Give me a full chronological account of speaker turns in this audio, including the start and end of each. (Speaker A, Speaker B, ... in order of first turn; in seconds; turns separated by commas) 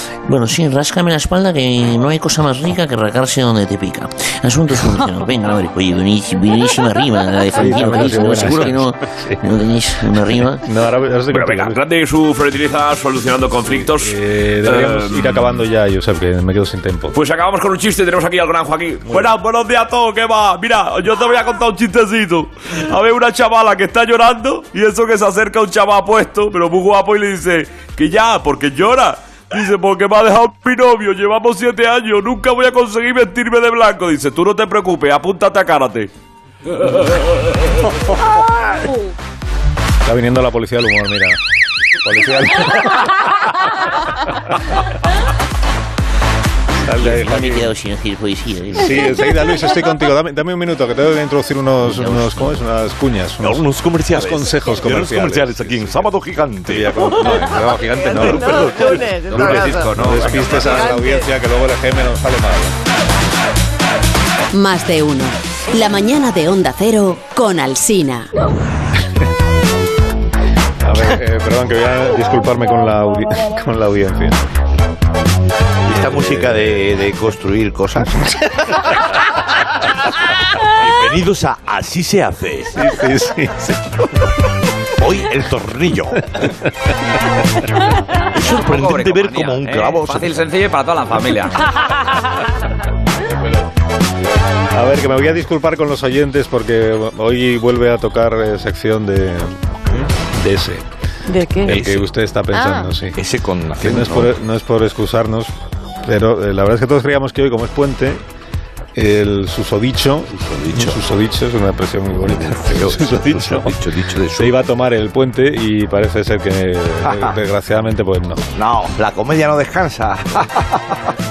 Speaker A: 0.2-10.6, Speaker B: 7.5-9.4, Speaker B: 10.6-11.8, Speaker C: 11.3-15.6, Speaker B: 13.7-17.2, Speaker C: 17.1-36.1, Speaker B: 19.1-19.3, Speaker B: 40.0-41.4, Speaker B: 42.0-43.1, Speaker B: 46.8-47.7, Speaker A: 47.0-49.2, Speaker B: 48.7-56.1, Speaker A: 51.8-52.6, Speaker D: 53.4-57.0, Speaker B: 56.6-62.8, Speaker D: 58.1-60.3, Speaker E: 58.1-61.3, Speaker F: 59.7-60.5, Speaker G: 64.5-68.3, Speaker B: 70.8-74.5, Speaker D: 75.9-78.2, Speaker B: 75.9-76.9, Speaker D: 80.7-82.8, Speaker B: 82.7-83.9, Speaker D: 85.0-86.4, Speaker D: 88.3-90.5, Speaker F: 88.4-91.8, Speaker B: 94.7-99.6, Speaker B: 100.3-100.9, Speaker E: 101.3-101.8, Speaker B: 101.6-103.2, Speaker D: 101.7-102.1, Speaker E: 102.5-102.9, Speaker D: 103.2-104.3, Speaker B: 103.8-108.2, Speaker B: 109.0-113.8, Speaker D: 110.3-111.0, Speaker D: 112.3-114.5, Speaker B: 114.3-118.5, Speaker D: 117.1-117.3, Speaker D: 118.6-121.0